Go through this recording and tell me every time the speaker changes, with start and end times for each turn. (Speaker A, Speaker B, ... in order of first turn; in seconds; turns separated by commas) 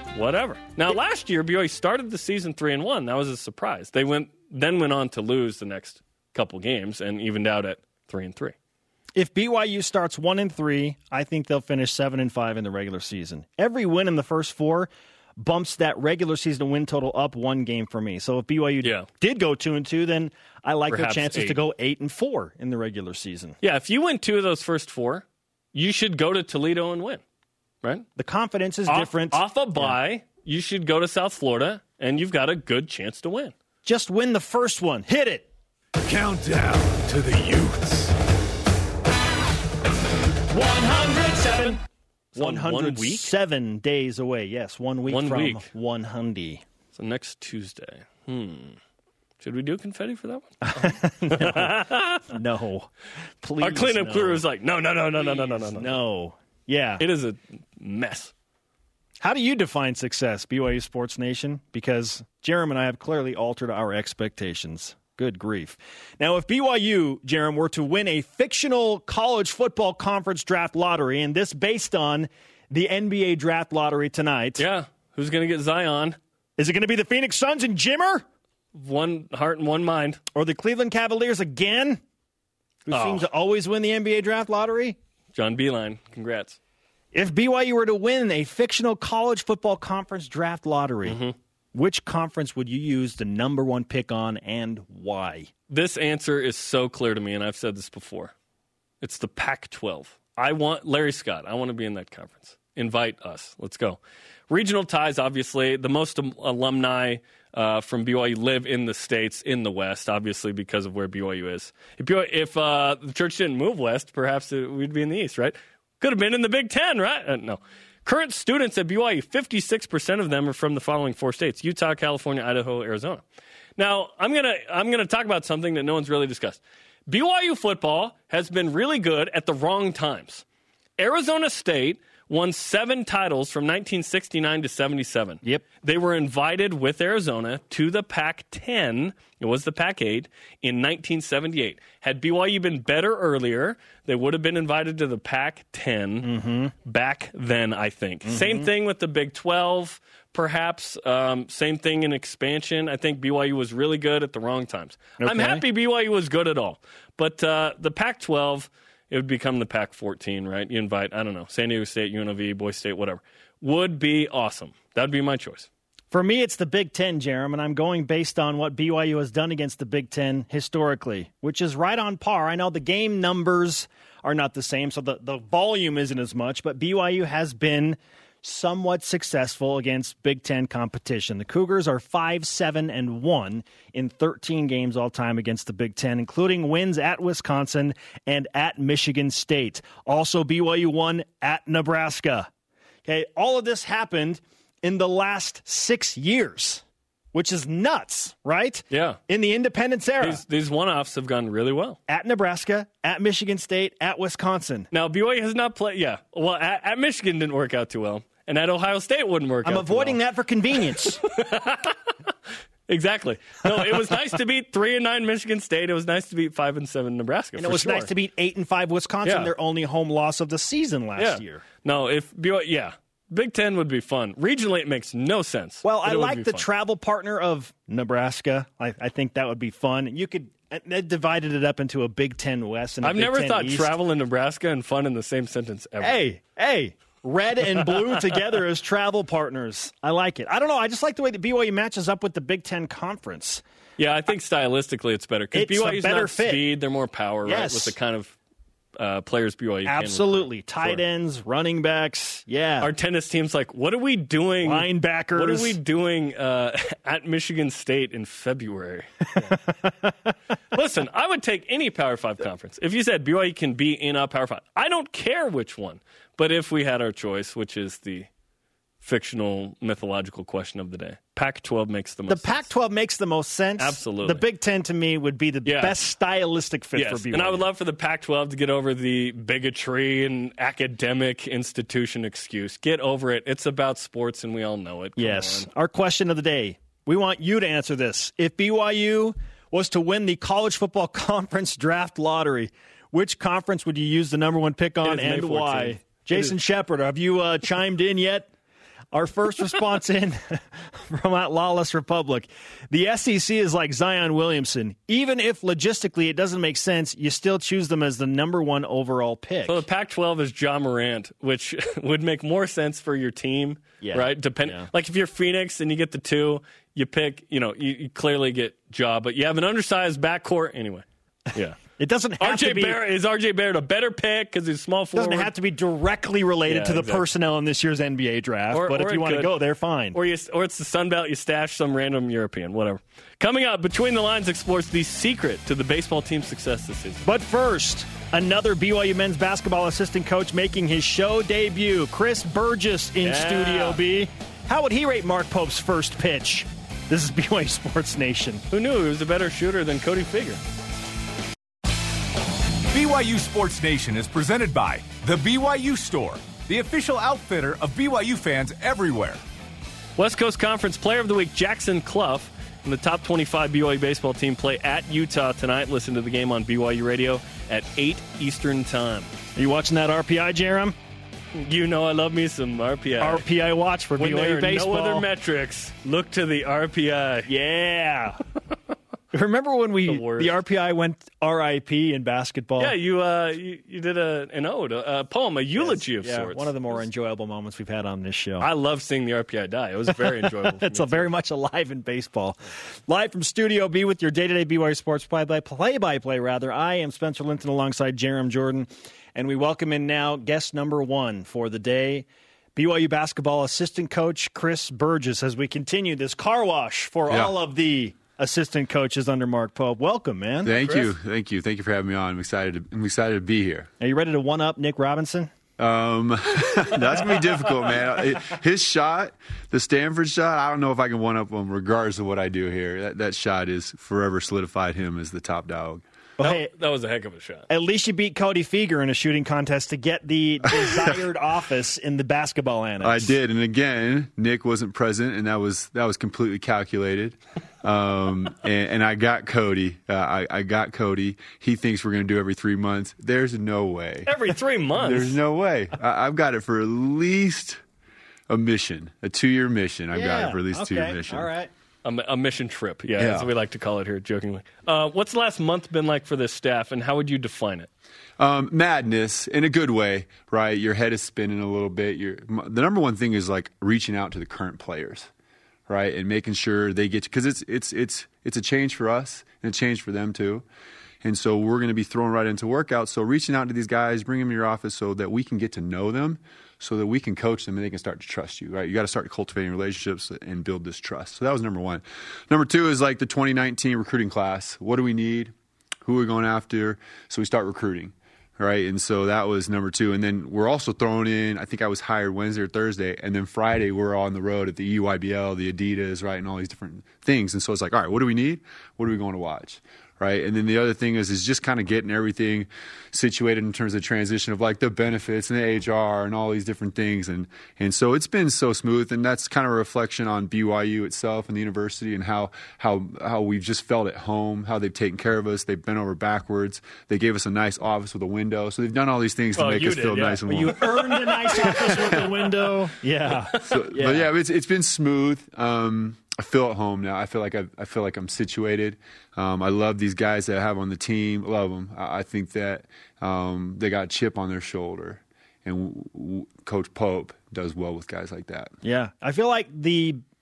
Speaker A: 0.1-8.5, Speaker B: 9.2-23.6, Speaker A: 20.9-21.6, Speaker A: 23.6-27.2, Speaker B: 28.2-30.0, Speaker A: 28.9-33.5, Speaker B: 33.9-35.5, Speaker C: 36.0-38.1, Speaker B: 40.5-41.8, Speaker A: 42.3-43.3, Speaker B: 42.4-46.6, Speaker A: 45.1-45.7, Speaker A: 46.9-48.8, Speaker A: 49.4-52.2, Speaker B: 50.6-52.9, Speaker B: 53.4-54.4, Speaker A: 53.6-56.0, Speaker B: 55.1-57.0, Speaker A: 57.0-58.3, Speaker B: 59.2-74.6, Speaker A: 74.6-76.2, Speaker B: 76.6-78.2, Speaker A: 78.7-80.2, Speaker B: 80.3-82.0, Speaker B: 82.9-85.0, Speaker A: 82.9-83.3, Speaker A: 85.3-86.6, Speaker B: 87.1-91.2, Speaker A: 91.0-91.3, Speaker B: 91.7-95.5, Speaker A: 95.7-98.3, Speaker A: 99.0-123.2, Speaker A: 123.8-130.4, Speaker A: 131.0-146.3, Speaker B: 146.2-146.7, Speaker A: 146.8-165.7, Speaker B: 148.2-148.7, Speaker B: 155.2-155.6, Speaker B: 166.1-192.5, Speaker B: 193.1-196.8, Speaker B: 197.3-200.4, Speaker A: 198.9-199.2, Speaker A: 200.2-202.0, Speaker B: 202.1-204.9, Speaker A: 204.9-210.2, Speaker B: 209.6-211.2, Speaker A: 211.2-212.0, Speaker A: 212.9-218.1, Speaker B: 217.6-221.6, Speaker A: 219.2-219.5, Speaker A: 221.2-226.6, Speaker B: 225.8-234.0, Speaker A: 233.0-236.2, Speaker B: 236.0-243.6, Speaker A: 237.9-238.2, Speaker A: 244.0-248.4, Speaker B: 245.5-246.6, Speaker B: 247.5-248.0, Speaker A: 249.0-251.0, Speaker B: 249.9-252.9, Speaker A: 252.8-259.6, Speaker B: 254.6-255.8, Speaker B: 259.5-260.3, Speaker A: 260.7-268.3, Speaker A: 269.0-272.7, Speaker B: 272.3-277.6, Speaker A: 273.8-274.4, Speaker A: 275.6-276.0, Speaker A: 276.9-285.7, Speaker B: 285.2-298.5, Speaker A: 295.0-296.5, Speaker B: 299.1-309.8, Speaker A: 309.7-321.8, Speaker B: 314.0-314.9, Speaker B: 322.0-323.0, Speaker A: 322.4-325.5, Speaker B: 325.1-330.2, Speaker A: 326.7-327.2, Speaker A: 328.7-329.6, Speaker A: 330.1-337.2, Speaker B: 337.2-348.6, Speaker A: 343.2-344.0, Speaker A: 348.7-350.6, Speaker C: 352.9-359.4, Speaker A: 360.2-369.3, Speaker B: 369.6-370.9, Speaker A: 371.5-373.4, Speaker B: 373.2-375.2, Speaker A: 374.2-377.5, Speaker B: 377.5-378.4, Speaker B: 379.3-382.9, Speaker A: 380.1-380.6, Speaker A: 382.8-387.0, Speaker B: 385.8-388.7, Speaker A: 388.6-391.3, Speaker B: 390.2-410.7, Speaker D: 407.3-407.5, Speaker D: 410.6-413.9, Speaker A: 410.8-411.1, Speaker B: 414.0-415.5, Speaker D: 415.8-426.0, Speaker B: 426.4-426.7, Speaker A: 426.4-427.7, Speaker B: 427.7-433.4, Speaker D: 430.7-431.2, Speaker D: 433.0-444.4, Speaker A: 444.3-445.4, Speaker D: 444.9-447.8, Speaker D: 448.5-451.5, Speaker B: 450.1-451.7, Speaker A: 452.0-457.9, Speaker D: 453.2-453.5, Speaker D: 458.4-465.3, Speaker D: 465.9-470.6, Speaker D: 471.2-485.5, Speaker D: 486.0-521.0, Speaker A: 519.5-522.3, Speaker B: 520.5-524.3, Speaker D: 521.6-522.3, Speaker D: 523.6-538.7, Speaker B: 538.8-540.2